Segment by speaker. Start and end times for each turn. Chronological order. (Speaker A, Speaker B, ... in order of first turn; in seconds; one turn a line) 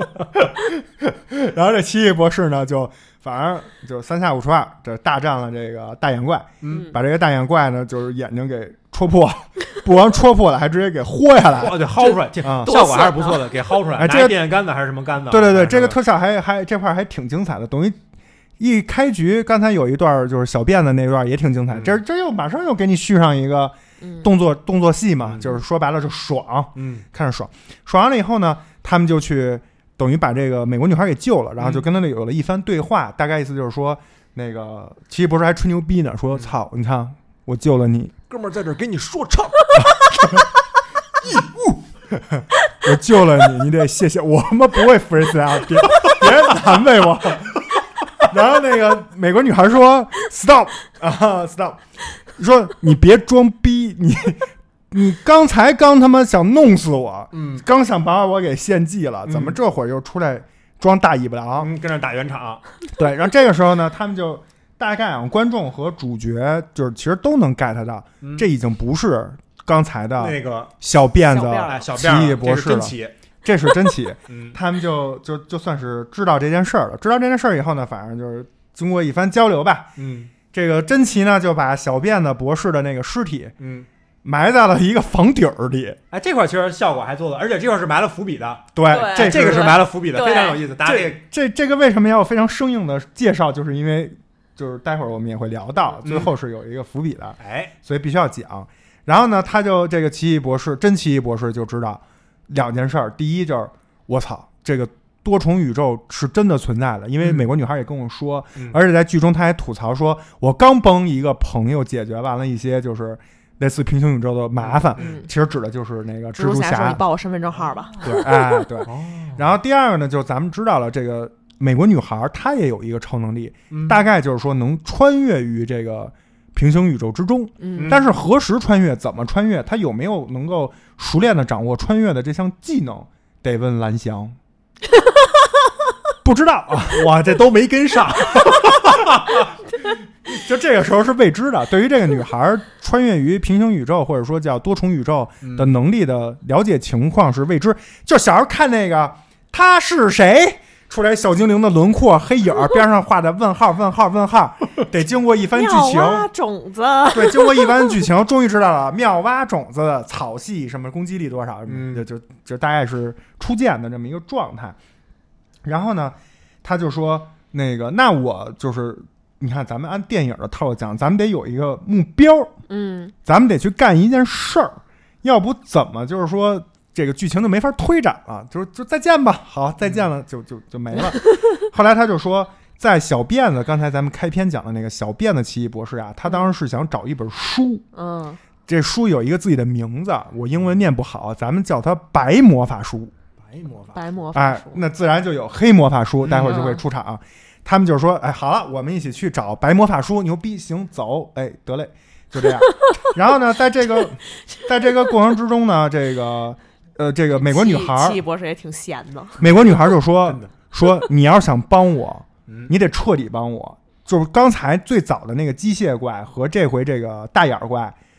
Speaker A: 0.4-12.8
Speaker B: 6.6-6.9
Speaker C: 6.7-6.9
Speaker B: 11.5-16.0
Speaker C: 12.0-13.5
Speaker A: 14.0-14.4
Speaker A: 15.3-18.0
Speaker A: 18.6-38.1
Speaker B: 21.7-22.0
Speaker C: 24.0-24.3
Speaker B: 25.2-25.5
Speaker B: 26.8-27.1
Speaker B: 31.6-31.9
Speaker B: 38.3-40.3
Speaker B: 41.2-41.8
Speaker A: 42.1-47.7
Speaker B: 46.0-46.3
Speaker A: 48.2-51.8
Speaker A: 52.4-61.7
Speaker B: 57.3-57.6
Speaker B: 59.3-59.6
Speaker B: 61.6-62.6
Speaker A: 62.9-79.9
Speaker B: 68.2-68.5
Speaker B: 70.2-70.7
Speaker C: 71.3-71.8
Speaker B: 71.6-73.1
Speaker B: 74.3-74.6
Speaker B: 80.0-80.3
Speaker A: 80.5-83.5
Speaker B: 83.6-83.9
Speaker A: 84.2-86.0
Speaker B: 86.1-91.2
Speaker A: 88.8-89.9
Speaker C: 88.9-90.6
Speaker A: 90.8-117.0
Speaker B: 96.0-96.3
Speaker B: 97.4-97.7
Speaker B: 107.2-107.5
Speaker B: 114.6-115.1
Speaker C: 115.0-115.3
Speaker C: 116.3-118.6
Speaker B: 117.6-118.1
Speaker A: 118.0-134.4
Speaker B: 118.8-119.4
Speaker B: 123.7-124.0
Speaker C: 127.6-128.0
Speaker B: 127.8-128.1
Speaker A: 136.2-139.2
Speaker B: 136.9-139.5
Speaker A: 140.3-156.3
Speaker B: 145.4-145.7
Speaker C: 155.5-157.8
Speaker A: 157.1-164.8
Speaker B: 161.7-162.1
Speaker A: 165.6-172.5
Speaker C: 172.7-173.1
Speaker A: 173.3-187.8
Speaker C: 187.9-188.4
Speaker A: 188.7-193.1
Speaker B: 193.4-194.1
Speaker C: 193.9-194.8
Speaker A: 194.3-208.2
Speaker B: 196.2-196.7
Speaker C: 196.4-196.8
Speaker C: 207.3-209.4
Speaker A: 209.4-217.9
Speaker B: 210.2-210.5
Speaker B: 212.5-212.7